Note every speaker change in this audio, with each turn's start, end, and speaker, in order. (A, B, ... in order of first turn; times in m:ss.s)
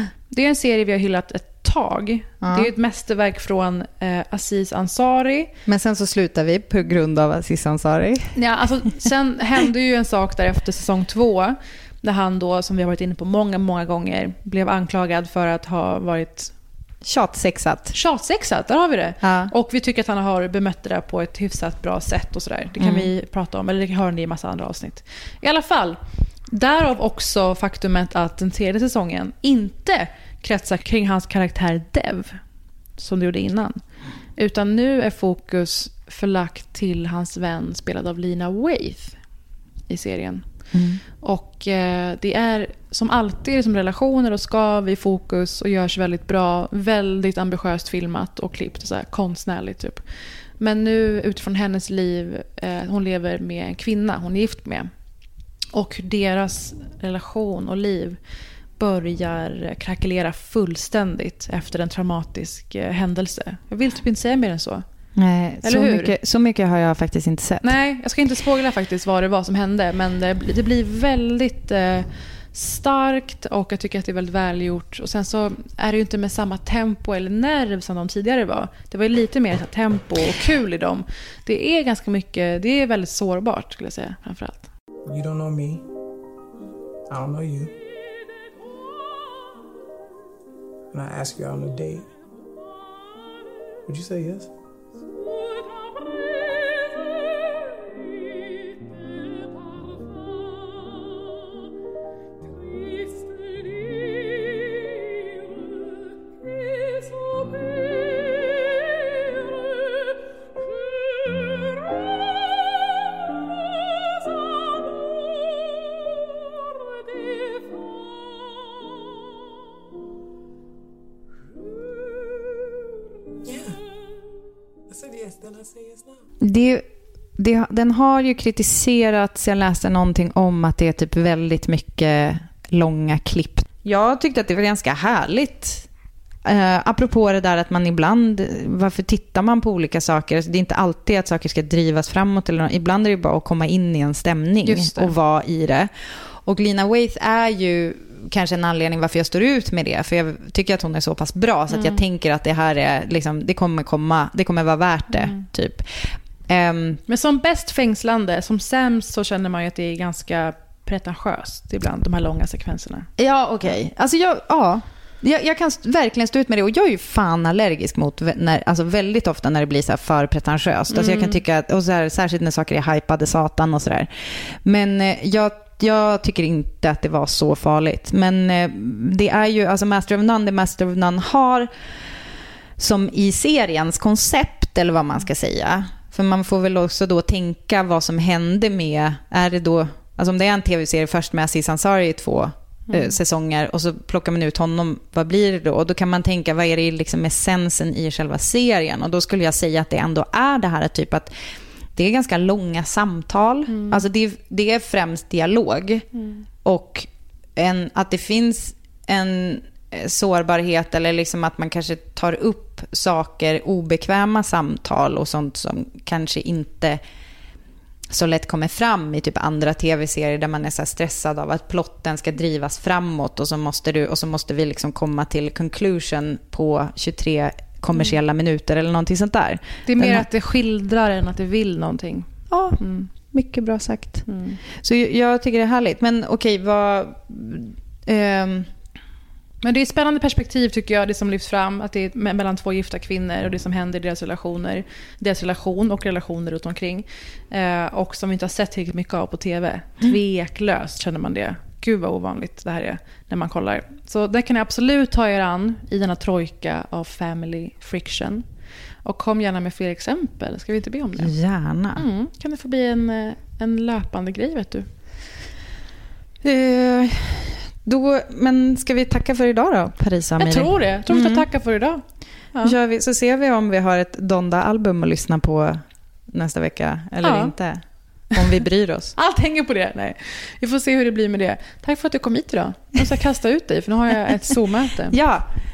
0:00.3-0:05.5 A
0:02.4-0:02.7 B
0:05.6-0:08.4 B
0:08.3-0:16.5 A
0:17.0-0:18.0 B
0:17.9-0:26.0 A
0:19.2-0:19.5 B
0:22.8-0:23.1 B
0:26.5-0:32.4 A
0:33.0-0:33.8 A
0:34.4-0:39.2 A
0:39.9-0:40.4 A
0:40.7-0:41.0 B
0:41.2-0:50.0 A
0:50.6-0:54.9 A
0:55.7-0:58.2 A
0:58.8-1:04.8 A
1:05.2-1:07.8 B
1:05.6-1:06.1 A
1:07.6-1:24.7 A
1:25.0-1:25.8 C
1:27.1-1:27.7 C
1:30.9-1:32.1 C
1:33.8-1:34.5 C
2:03.4-2:03.8 C
2:04.9-2:06.2 C
2:06.4-2:06.8 B
2:07.4-2:15.9 B
2:16.4-2:37.0 B
2:24.6-2:25.1 A
2:31.7-2:32.0 A
2:35.1-2:35.5 A
2:37.1-2:43.1 A
2:43.2-2:54.1 B
2:50.9-2:51.4 A
2:54.6-3:01.7 B
3:02.8-3:21.3 B
3:12.9-3:13.2 A
3:21.9-3:26.0 B
3:23.7-3:24.0 A
3:26.1-3:26.4 A
3:26.6-3:37.0 B
3:38.1-3:50.3 B
3:49.8-3:53.1 A
3:52.5-3:58.7 B
3:54.3-3:54.6 A
3:59.6-4:18.4 A
4:19.0-4:21.3 A
4:21.2-4:22.0 B
4:21.9-4:24.9 A
4:26.4-4:31.4 B
4:30.4-4:32.0 A
4:32.6-4:37.8 B
4:37.2-4:37.5 A
4:38.3-4:39.1 B
4:39.2-4:45.2 A
4:45.1-4:45.5 B